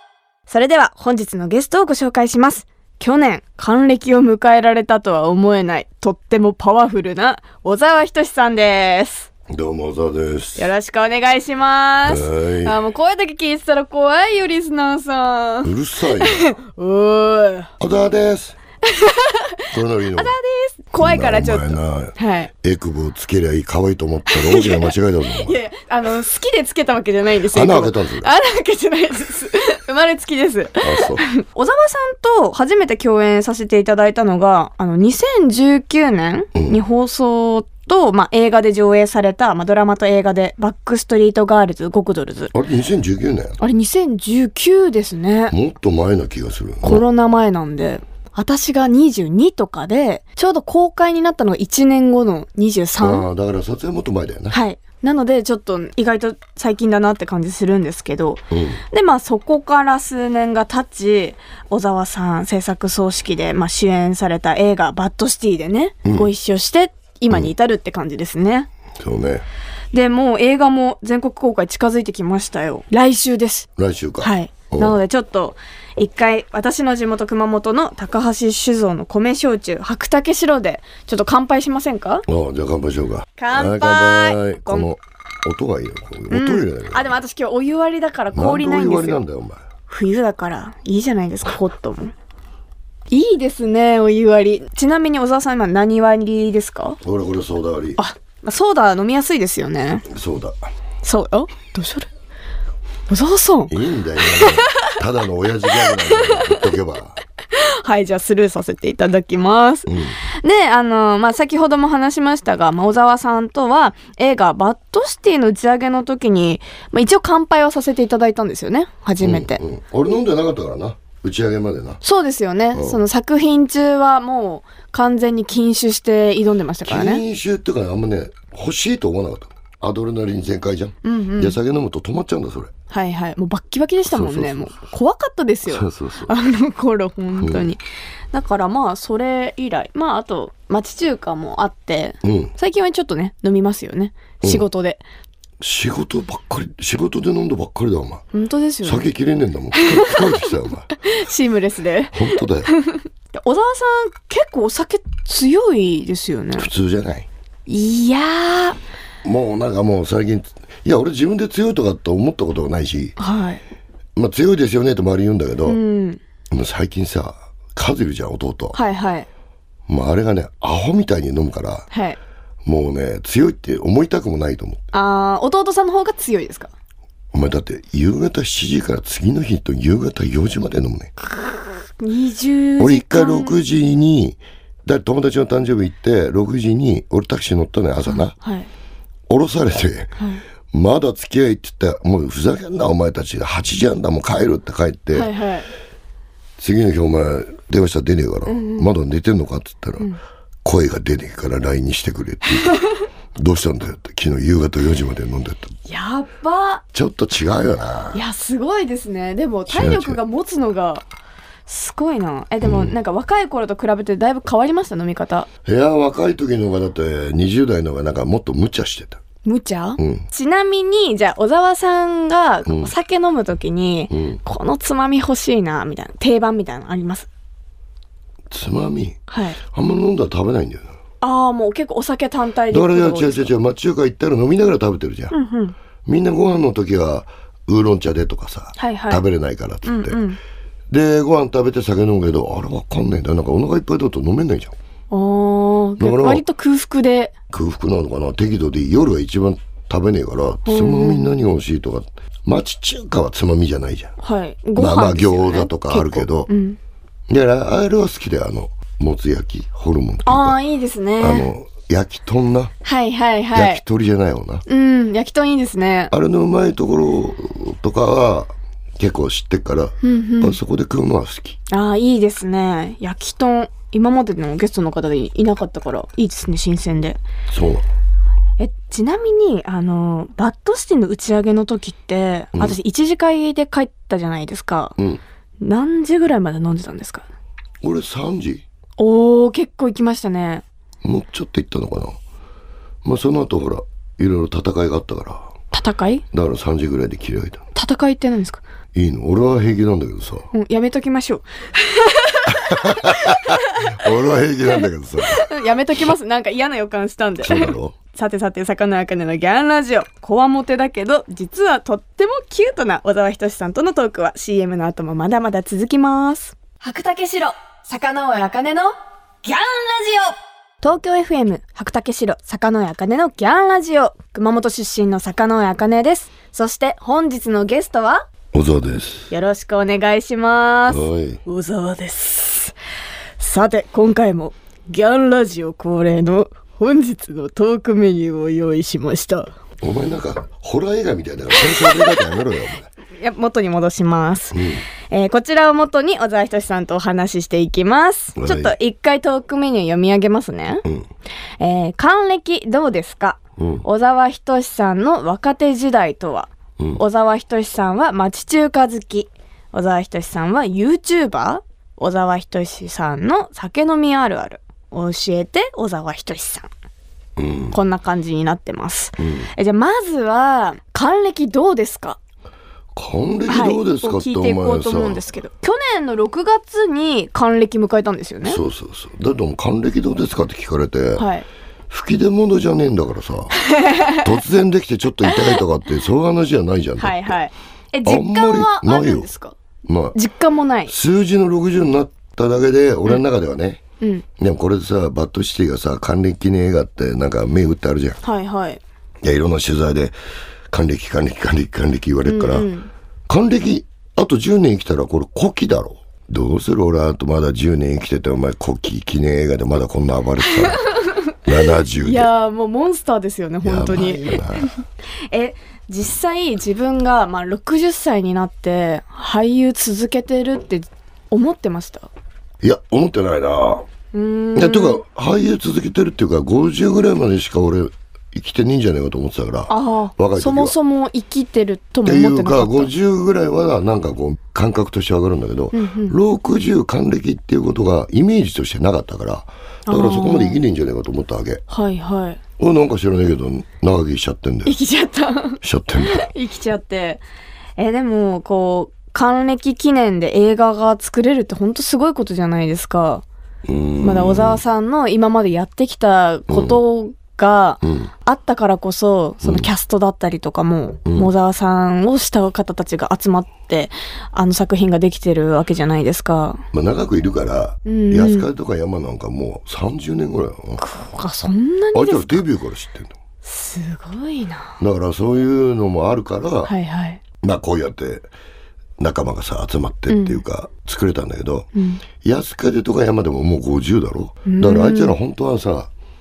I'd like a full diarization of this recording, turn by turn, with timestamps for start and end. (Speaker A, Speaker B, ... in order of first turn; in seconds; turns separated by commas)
Speaker A: 0.5-9.3, Speaker B: 9.5-10.7, Speaker A: 10.6-17.7, Speaker B: 12.0-12.8, Speaker B: 15.6-16.5, Speaker B: 17.8-18.6, Speaker A: 18.9-19.5, Speaker B: 19.7-20.3, Speaker A: 20.1-22.5, Speaker B: 21.0-25.6, Speaker A: 24.3-42.5, Speaker B: 27.5-28.3, Speaker B: 30.8-31.2, Speaker B: 36.5-36.8, Speaker B: 42.5-43.6, Speaker A: 43.6-45.5, Speaker B: 45.5-47.0, Speaker A: 46.8-53.3, Speaker B: 53.0-54.6, Speaker A: 54.5-68.7, Speaker B: 58.5-58.8, Speaker B: 66.0-66.3, Speaker B: 69.0-69.5, Speaker A: 69.9-73.7, Speaker B: 73.8-75.0, Speaker A: 74.2-82.2, Speaker B: 82.3-87.1, Speaker A: 83.4-84.9, Speaker A: 86.3-89.2, Speaker B: 88.3-89.6, Speaker A: 89.9-92.1, Speaker A: 93.1-97.0, Speaker B: 97.0-98.0, Speaker A: 98.0-100.1, Speaker B: 100.1-100.6, Speaker A: 101.0-102.1, Speaker A: 103.1-104.9, Speaker B: 103.7-107.2, Speaker A: 105.7-106.7, Speaker A: 107.5-119.6, Speaker B: 109.9-110.2, Speaker B: 119.2-122.0, Speaker A: 122.0-127.2, Speaker B: 122.7-123.0, Speaker B: 126.8-132.7, Speaker A: 131.0-131.6, Speaker A: 132.9-137.8, Speaker B: 134.1-134.7, Speaker B: 135.7-136.3, Speaker B: 137.4-137.7, Speaker A: 138.3-145.0, Speaker B: 142.2-142.5, Speaker B: 145.6-148.2, Speaker A: 148.3-149.1, Speaker B: 148.8-150.9, Speaker A: 149.7-156.7, Speaker B: 152.1-152.7, Speaker B: 156.6-157.3, Speaker A: 157.7-158.8, Speaker B: 159.2-163.2, Speaker A: 163.2-163.6, Speaker B: 164.2-165.8, Speaker A: 165.6-166.2, Speaker B: 166.5-168.8, Speaker A: 168.7-169.3, Speaker B: 169.9-171.9, Speaker A: 171.9-172.2, Speaker B: 172.6-174.8, Speaker A: 174.9-176.7, Speaker B: 177.3-181.1, Speaker A: 181.2-183.6, Speaker B: 182.8-188.3, Speaker A: 188.0-188.7, Speaker B: 189.3-190.2, Speaker A: 190.2-190.4, Speaker B: 190.7-195.3, Speaker A: 195.1-195.7, Speaker B: 196.6-200.1, Speaker A: 198.5-198.9, Speaker B: 200.6-202.8, Speaker A: 202.7-203.0, Speaker B: 203.3-205.7, Speaker A: 205.9-206.8, Speaker B: 206.9-208.2, Speaker A: 208.1-211.1, Speaker B: 209.7-210.2, Speaker A: 211.7-215.5, Speaker B: 212.6-212.9, Speaker B: 215.7-219.2, Speaker A: 219.4-227.3, Speaker B: 220.0-220.2, Speaker B: 222.7-222.9, Speaker B: 224.1-224.4, Speaker B: 228.5-229.2, Speaker A: 229.3-229.6, Speaker B: 229.7-230.9, Speaker A: 231.2-233.5, Speaker B: 232.7-235.3, Speaker A: 235.3-235.7, Speaker B: 236.1-240.2, Speaker A: 238.8-239.2, Speaker A: 239.8-240.4, Speaker B: 240.9-244.7, Speaker A: 245.1-247.3, Speaker B: 246.0-246.4, Speaker B: 247.5-254.1, Speaker A: 250.6-251.3, Speaker A: 254.2-256.8, Speaker B: 254.8-256.5, Speaker B: 257.3-260.6, Speaker A: 260.2-261.5, Speaker B: 261.2-262.7, Speaker A: 262.8-263.8, Speaker B: 263.5-264.6, Speaker A: 264.7-266.1, Speaker B: 266.1-271.6, Speaker A: 270.0-270.6, Speaker A: 271.7-277.2, Speaker B: 277.5-277.9, Speaker A: 278.6-284.9, Speaker A: 285.6-287.3, Speaker B: 287.8-288.6, Speaker A: 289.0-290.6, Speaker B: 291.0-292.2, Speaker B: 293.0-295.5, Speaker A: 295.7-296.2, Speaker B: 296.3-297.6, Speaker A: 297.7-298.6, Speaker B: 298.9-300.5, Speaker A: 300.5-304.1, Speaker B: 302.6-305.4, Speaker A: 304.7-318.9, Speaker B: 307.4-307.9, Speaker A: 319.4-328.2, Speaker B: 328.5-329.3, Speaker A: 329.3-332.7, Speaker B: 330.9-331.4, Speaker A: 333.4-339.5, Speaker B: 339.8-342.9, Speaker A: 341.6-342.1, Speaker A: 343.1-350.9, Speaker B: 344.5-344.9, Speaker B: 348.4-348.7, Speaker A: 351.6-366.7, Speaker B: 353.6-353.8, Speaker B: 367.4-367.8, Speaker A: 367.7-372.2, Speaker B: 369.2-369.5, Speaker B: 372.9-375.2, Speaker A: 373.5-378.6, Speaker B: 378.4-381.3, Speaker A: 381.1-381.5, Speaker B: 381.9-387.4, Speaker A: 383.6-384.3, Speaker A: 385.3-385.6, Speaker A: 387.0-389.6, Speaker B: 388.0-389.3, Speaker B: 389.8-390.2, Speaker A: 390.1-390.9, Speaker B: 390.9-393.8, Speaker B: 394.4-398.2, Speaker A: 398.2-398.8, Speaker B: 399.2-400.1, Speaker B: 400.7-402.7, Speaker A: 402.2-402.9, Speaker B: 403.3-412.3, Speaker A: 410.6-411.3, Speaker A: 411.9-414.7, Speaker B: 413.6-414.8, Speaker A: 415.3-422.1, Speaker B: 422.6-423.8, Speaker A: 424.1-425.0, Speaker B: 424.5-430.7, Speaker A: 429.7-432.9, Speaker B: 432.0-441.6, Speaker A: 435.7-436.2, Speaker A: 439.9-440.6, Speaker A: 441.7-442.4, Speaker B: 442.6-444.7, Speaker A: 444.6-447.2, Speaker B: 445.6-446.3, Speaker A: 447.8-453.2, Speaker B: 453.6-454.6, Speaker A: 454.0-466.6, Speaker B: 456.5-456.8, Speaker B: 457.8-458.1, Speaker B: 459.4-459.7, Speaker B: 461.1-461.3, Speaker B: 466.7-470.8, Speaker A: 467.8-468.5, Speaker A: 470.8-472.4, Speaker B: 471.9-473.1, Speaker A: 473.4-474.8, Speaker B: 474.8-476.7, Speaker A: 476.6-477.2, Speaker B: 477.4-478.3, Speaker B: 479.0-481.7, Speaker A: 480.1-480.4, Speaker A: 481.7-482.0, Speaker B: 482.2-485.9, Speaker A: 484.4-485.1